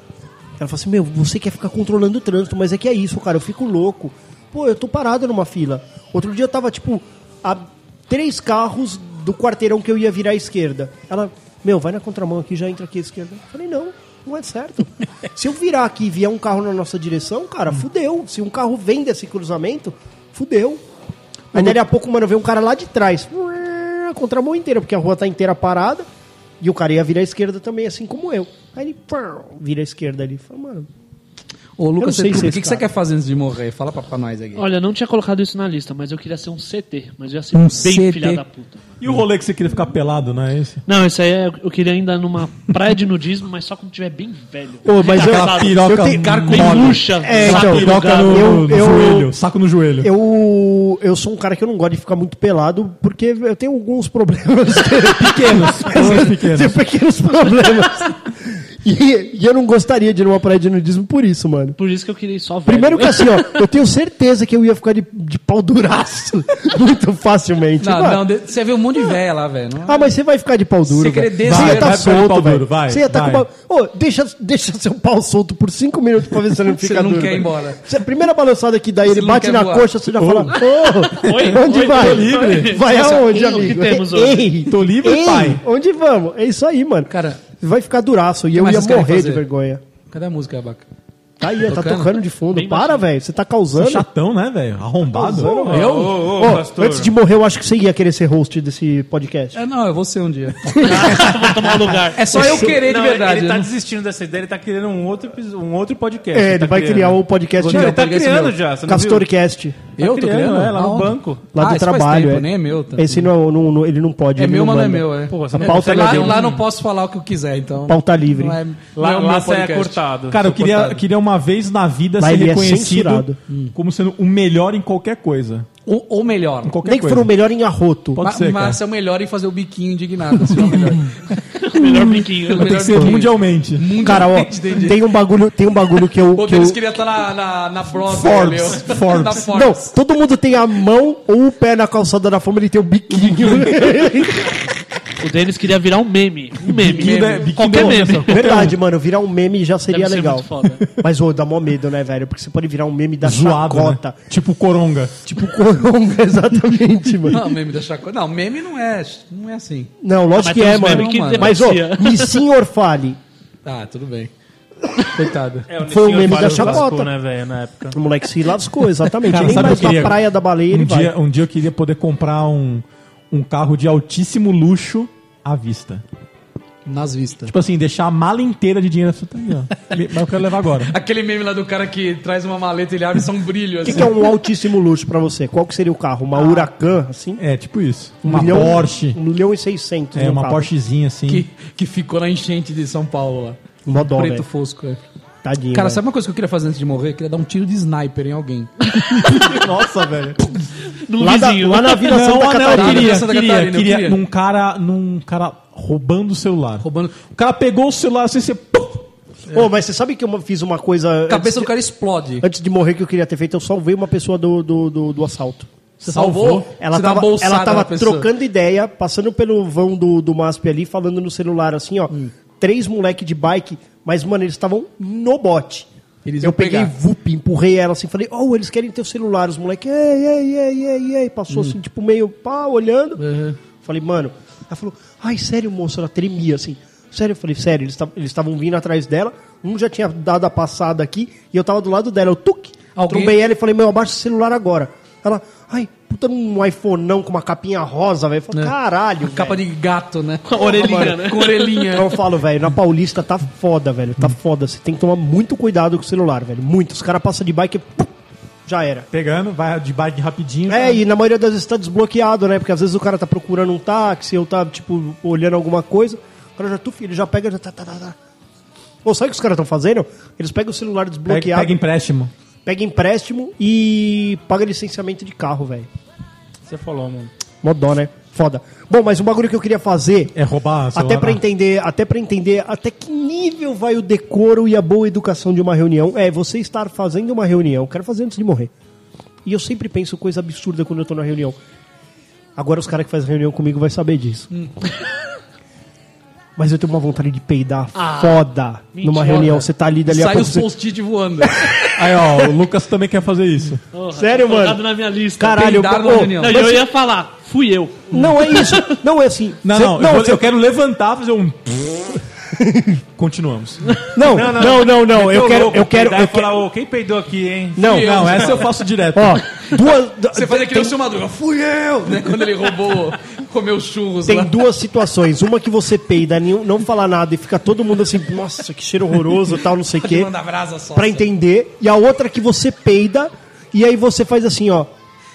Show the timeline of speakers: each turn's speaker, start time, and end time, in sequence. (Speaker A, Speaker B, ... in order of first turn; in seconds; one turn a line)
Speaker A: 0.6-20.8
Speaker A: 21.5-26.1
Speaker A: 26.6-30.9
Speaker B: 31.8-34.6
Speaker A: 32.0-32.9
Speaker C: 34.5-38.9
Speaker B: 37.5-38.4
Speaker D: 39.0-40.8
Speaker C: 40.9-48.8
Speaker A: 44.8-49.3
Speaker D: 45.0-50.1
Speaker A: 50.0-61.8
Speaker D: 55.1-56.8
Speaker C: 61.8-63.5
Speaker A: 62.6-68.2
Speaker B: 67.8-70.1
Speaker A: 69.8-89.8
Speaker B: 70.9-72.1
Speaker D: 71.4-73.4
Speaker B: 76.8-77.8
Speaker B: 79.0-79.9
Speaker D: 80.2-80.6
Speaker C: 81.1-84.5
Speaker D: 81.3-82.8
Speaker D: 84.7-85.6
Speaker B: 87.1-87.4
Speaker B: 88.5-89.4
Speaker B: 90.1-90.8
Speaker A: 91.4-94.0
Speaker B: 91.6-92.2
Speaker C: 92.5-93.0
Speaker D: 93.8-95.7
Speaker A: 95.0-99.6
Speaker E: 95.6-97.1
Speaker B: 95.7-96.3
Speaker B: 99.5-101.2
Speaker A: 100.8-101.2
Speaker C: 100.8-102.7
Speaker B: 102.1-103.7
Speaker E: 102.4-109.3
Speaker A: 106.3-108.0
Speaker B: 107.6-108.5
Speaker A: 108.8-109.9
Speaker E: 110.0-111.4
Speaker B: 110.0-113.3
Speaker A: 111.5-116.4
Speaker B: 114.3-120.0
Speaker E: 115.3-116.6
Speaker A: 117.9-118.6
Speaker E: 119.0-121.0
Speaker D: 120.3-125.7
Speaker A: 122.2-123.3
Speaker B: 123.5-123.7
Speaker B: 125.8-126.7
Speaker D: 126.6-127.3
Speaker A: 126.8-128.2
Speaker D: 128.2-128.8
Speaker B: 128.2-131.1
Speaker C: 131.6-133.2
Speaker D: 131.8-134.0
Speaker B: 132.5-135.0
Speaker A: 134.0-136.8
Speaker B: 136.3-139.9
Speaker D: 138.0-139.5
Speaker A: 139.5-144.8
Speaker C: 145.2-148.6
Speaker D: 146.7-148.7
Speaker B: 146.9-148.0
Speaker A: 148.3-154.2
Speaker C: 149.9-150.9
Speaker D: 153.2-155.1
Speaker A: 155.2-157.4
Speaker B: 157.3-159.9
Speaker A: 160.0-163.2
Speaker C: 160.3-162.4
Speaker B: 160.6-161.7
Speaker B: 163.6-164.3
Speaker B: 165.0-166.8
Speaker E: 165.7-167.9
Speaker A: 165.9-167.1
Speaker A: 167.9-171.1
Speaker D: 169.2-176.0
Speaker B: 176.8-177.5
Speaker D: 177.4-180.9
Speaker B: 180.9-184.2
Speaker A: 183.8-187.4
Speaker B: 186.4-186.7
Speaker D: 187.4-189.2
Speaker A: 188.2-190.7
Speaker D: 190.1-191.4
Speaker B: 191.3-193.6
Speaker A: 193.8-194.4
Speaker B: 194.1-195.0
Speaker A: 195.4-196.0
Speaker B: 195.7-198.7
Speaker D: 199.1-200.5
Speaker C: 201.0-202.1
Speaker A: 201.2-203.2
Speaker D: 202.0-209.1
Speaker B: 202.7-204.2
Speaker B: 206.8-207.2
Speaker A: 209.5-211.7
Speaker B: 211.3-212.4
Speaker A: 212.4-215.7
Speaker B: 216.0-218.3
Speaker D: 216.0-216.7
Speaker A: 216.7-225.9
Speaker B: 226.2-226.9
Speaker A: 226.4-233.2
Speaker B: 231.5-231.8
Speaker B: 233.2-233.6
Speaker A: 233.8-249.6
Speaker B: 242.9-243.4
Speaker B: 248.5-252.1
Speaker C: 250.4-251.8
Speaker A: 250.6-258.1
Speaker A: 258.6-259.1
Speaker D: 259.1-261.0
Speaker A: 260.7-268.2
Speaker A: 269.0-271.8
Speaker D: 271.3-272.3
Speaker A: 272.6-275.9
Speaker E: 276.7-277.3
Speaker A: 277.6-280.3
Speaker D: 280.3-281.4
Speaker A: 280.9-288.7
Speaker A: 289.4-291.6
Speaker A: 292.6-294.5
Speaker A: 296.6-300.7
Speaker C: 297.9-299.6
Speaker B: 299.2-301.6
Speaker A: 301.4-302.5
Speaker D: 301.9-303.8
Speaker C: 303.9-309.0
Speaker A: 304.1-304.8
Speaker A: 305.4-306.8
Speaker B: 305.5-306.7
Speaker A: 308.1-310.5
Speaker D: 309.6-312.2
Speaker A: 312.6-313.0
Speaker D: 313.1-313.8
Speaker A: 314.1-316.6
Speaker E: 314.3-317.9
Speaker A: 317.8-318.3
Speaker B: 317.8-318.7
Speaker D: 318.0-319.4
Speaker A: 319.1-321.0
Speaker B: 320.3-324.5
Speaker A: 324.2-330.3
Speaker B: 329.9-331.3
Speaker A: 330.9-334.9